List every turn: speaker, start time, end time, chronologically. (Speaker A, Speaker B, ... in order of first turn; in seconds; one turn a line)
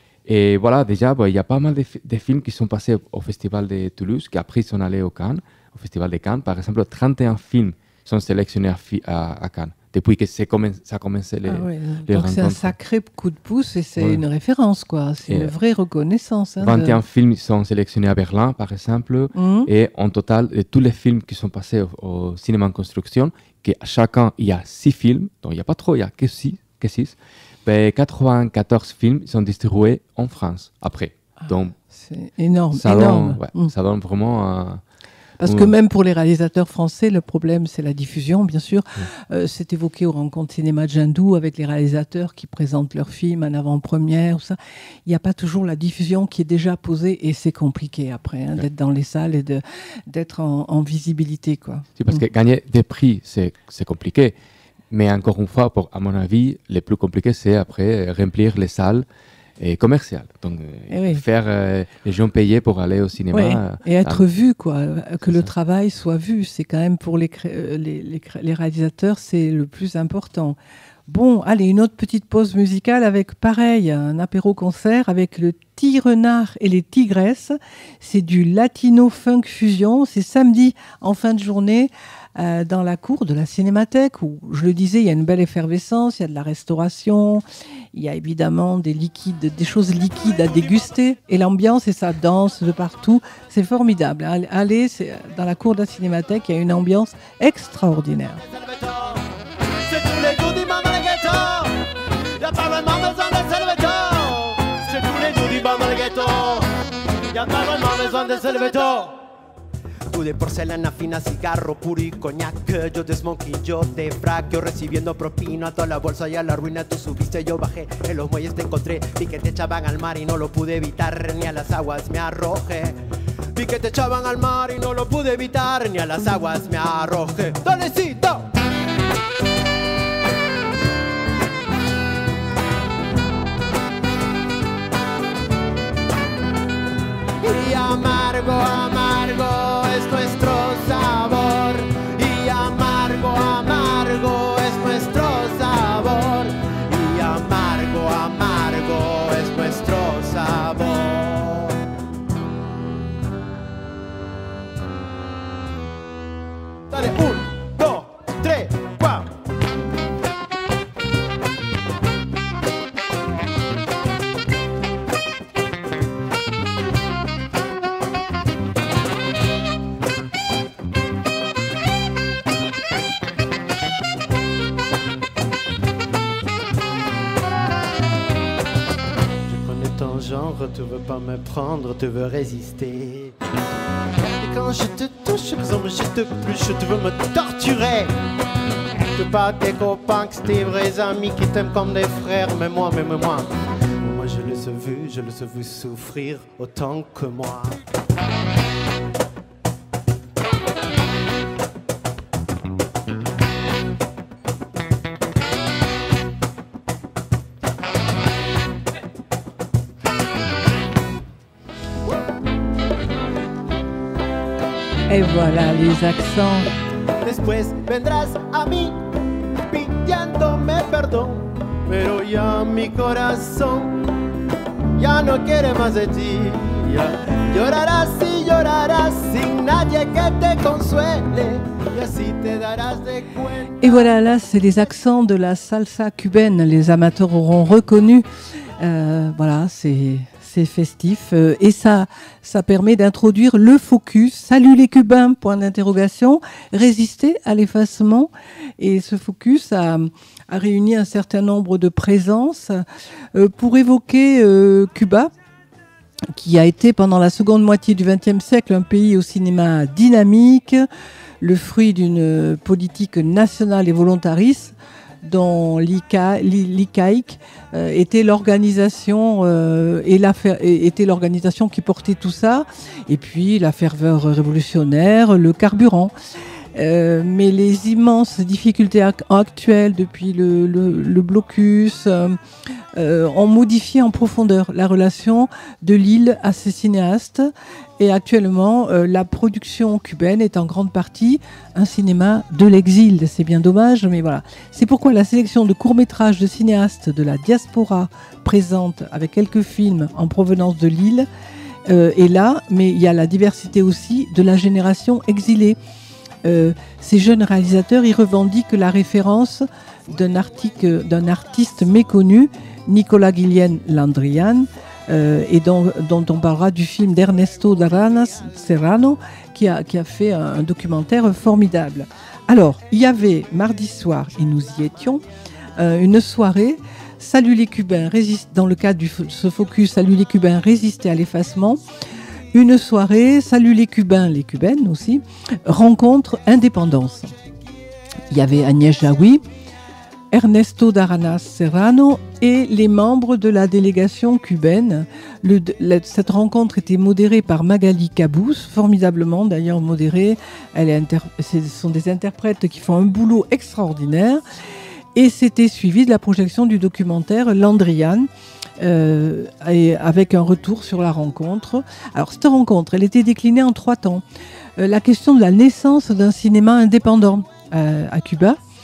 Speaker A: 0.2-12.7
Speaker B: 11.4-17.0
Speaker A: 14.0-14.2
Speaker A: 15.3-15.5
Speaker A: 16.6-31.7
Speaker B: 19.3-19.7
Speaker B: 31.9-33.7
Speaker A: 32.7-34.8
Speaker B: 35.4-52.2
Speaker A: 35.4-35.7
Speaker A: 52.0-54.3
Speaker A: 54.9-59.0
Speaker A: 59.6-64.2
Speaker B: 60.9-61.2
Speaker B: 63.3-87.4
Speaker A: 65.2-65.5
Speaker B: 87.9-98.4
Speaker C: 98.5-106.7
Speaker C: 107.3-109.3
Speaker C: 110.1-123.0
Speaker C: 123.5-128.5
Speaker C: 137.4-151.7
Speaker C: 156.9-159.3
Speaker C: 179.4-183.4
Speaker C: 184.2-188.1
Speaker C: 189.0-197.8
Speaker B: 215.1-216.7
Speaker C: 217.2-219.1
Speaker C: 219.7-224.0
Speaker C: 225.0-233.9
Speaker B: 233.8-238.2
Speaker B: 238.8-255.3
Speaker B: 256.3-260.9
Speaker B: 261.4-276.1
Speaker B: 276.7-282.4
Speaker B: 282.9-301.3
Speaker B: 301.9-305.8
Speaker B: 306.4-325.2
Speaker B: 325.8-331.8
Speaker B: 332.5-337.3
Speaker B: 338.3-339.4
Speaker B: 340.3-354.4
Speaker B: 355.1-358.3
Speaker B: 358.8-364.2
Speaker B: 364.8-368.6